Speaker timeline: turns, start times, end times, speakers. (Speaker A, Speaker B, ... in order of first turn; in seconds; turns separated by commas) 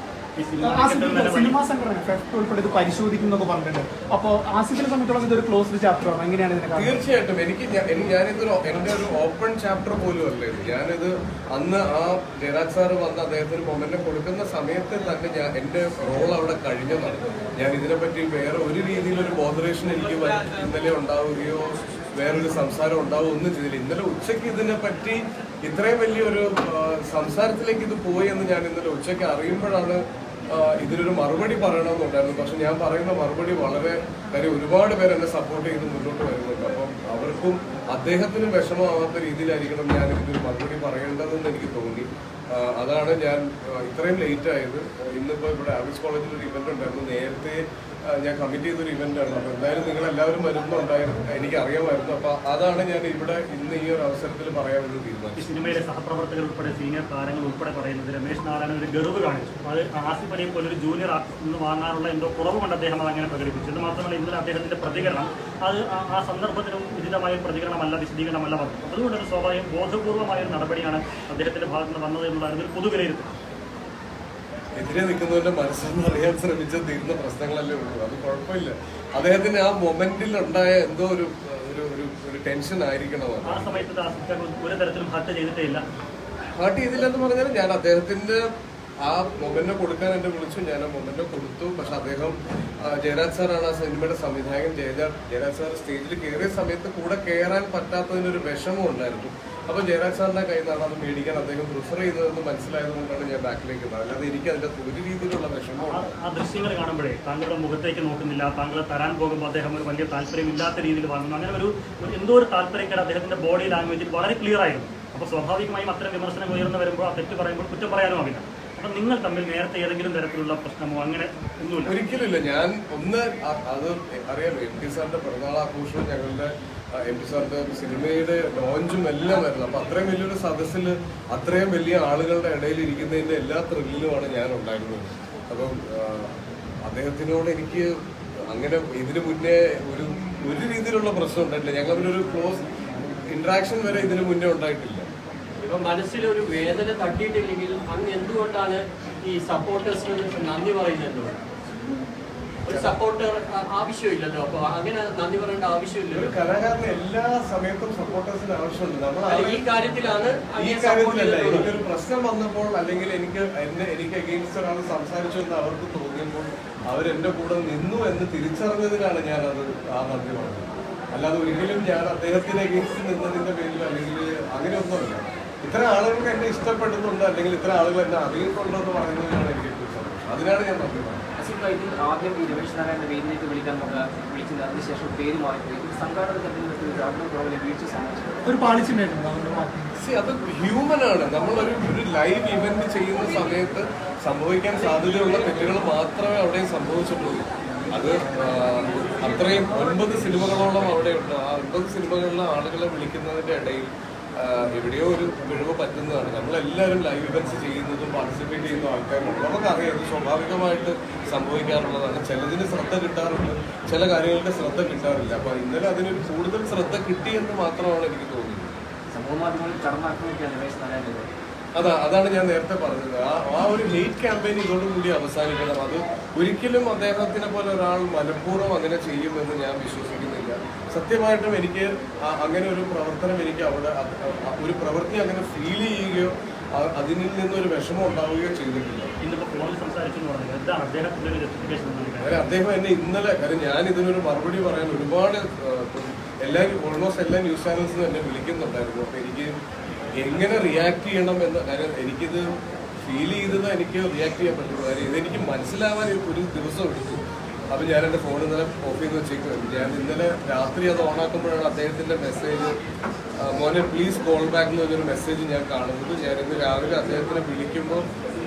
Speaker A: 0.4-1.5, Speaker B: 0.6-6.9, Speaker C: 6.7-55.5, Speaker A: 55.4-73.3, Speaker C: 74.8-83.8, Speaker A: 83.5-85.8, Speaker C: 86.5-88.4, Speaker C: 89.0-106.1, Speaker A: 105.9-121.9, Speaker C: 121.8-136.3, Speaker C: 136.8-137.9, Speaker C: 138.5-142.6, Speaker C: 143.2-145.1, Speaker D: 145.6-151.4, Speaker C: 152.7-152.9, Speaker D: 152.7-156.3, Speaker C: 156.1-181.2, Speaker D: 159.3-161.7, Speaker E: 181.4-188.4, Speaker B: 188.4-189.9, Speaker C: 190.0-218.7, Speaker E: 219.1-221.3, Speaker C: 221.7-239.1, Speaker A: 239.2-242.3, Speaker C: 242.2-249.6, Speaker C: 250.2-252.4, Speaker C: 253.0-262.7, Speaker C: 263.4-268.1